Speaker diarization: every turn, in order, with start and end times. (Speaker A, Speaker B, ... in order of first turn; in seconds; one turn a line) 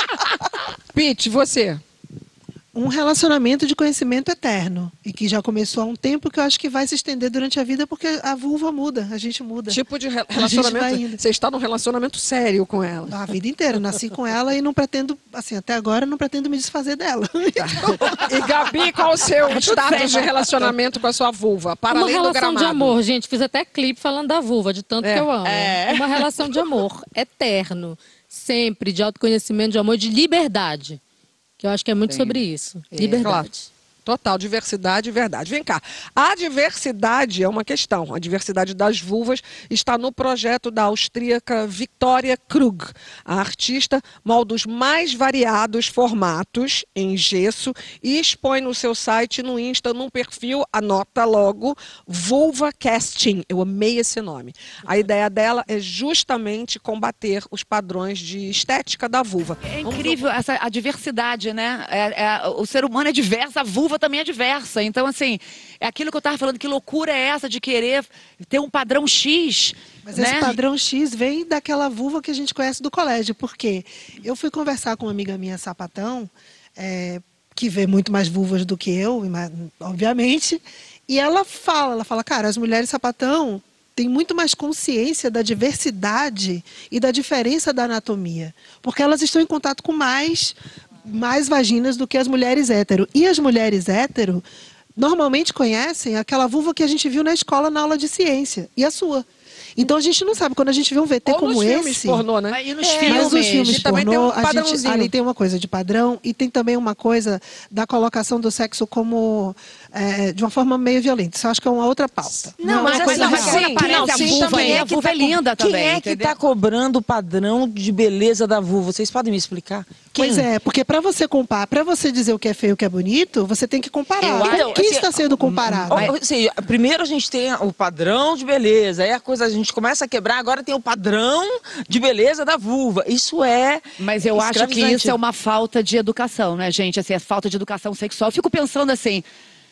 Speaker A: 0.9-1.8
Speaker B: 2.7-9.8
Speaker A: 9.7-13.1
Speaker B: 10.3-11.2
Speaker B: 13.1-18.3
Speaker A: 17.6-22.9
Speaker C: 19.4-20.7
Speaker D: 21.9-31.0
Speaker A: 25.0-25.3
Speaker C: 25.4-26.2
Speaker D: 31.6-33.7
Speaker C: 32.1-32.4
Speaker C: 32.9-33.4
Speaker A: 33.2-33.5
Speaker A: 34.0-60.3
Speaker C: 59.6-70.6
Speaker B: 70.0-94.5
Speaker B: 95.0-102.2
Speaker A: 101.2-105.1
Speaker C: 102.5-104.0
Speaker B: 103.0-113.8
Speaker C: 112.6-116.3
Speaker A: 112.6-114.8
Speaker E: 112.7-120.5
Speaker B: 120.1-126.1
Speaker C: 124.2-126.2
Speaker E: 124.2-135.2
Speaker C: 134.0-139.2